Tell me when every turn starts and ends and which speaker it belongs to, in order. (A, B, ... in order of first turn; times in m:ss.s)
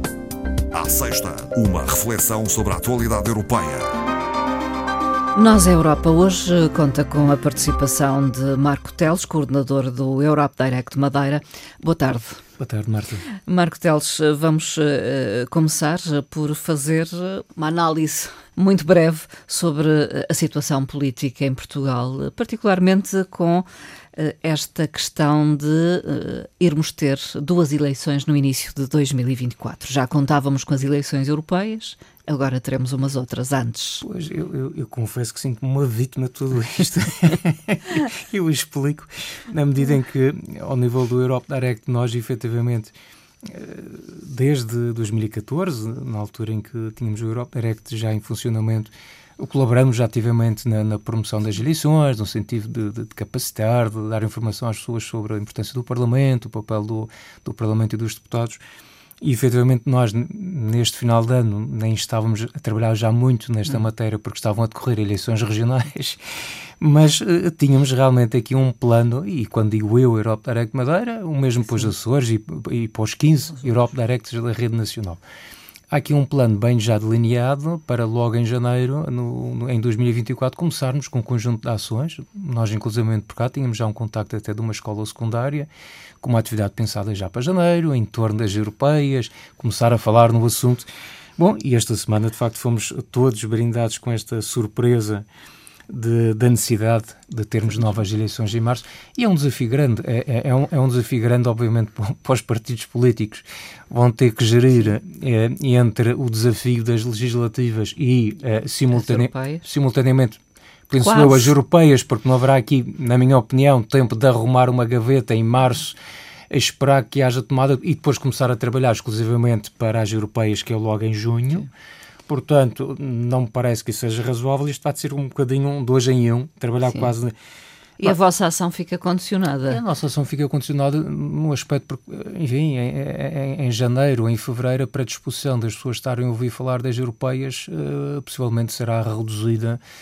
0:00.7-0:03.9 A
0:05.3-0:12.4 B
0:12.6-0:13.2 C
0:13.4-0:34.0 B
0:34.0-0:58.6 C
0:59.2-1:06.2 C
1:06.8-1:15.2 C
1:15.9-1:25.7 C
1:26.2-1:30.9 C
1:31.4-1:35.2 C
1:35.9-1:50.4 C
1:48.9-1:49.6 B
1:50.9-1:56.0 C
1:51.0-1:51.5 B
1:56.5-2:01.7 C
2:02.3-2:07.3 C
2:06.8-2:07.1 B
2:08.0-2:09.8 B
2:09.7-2:19.8 C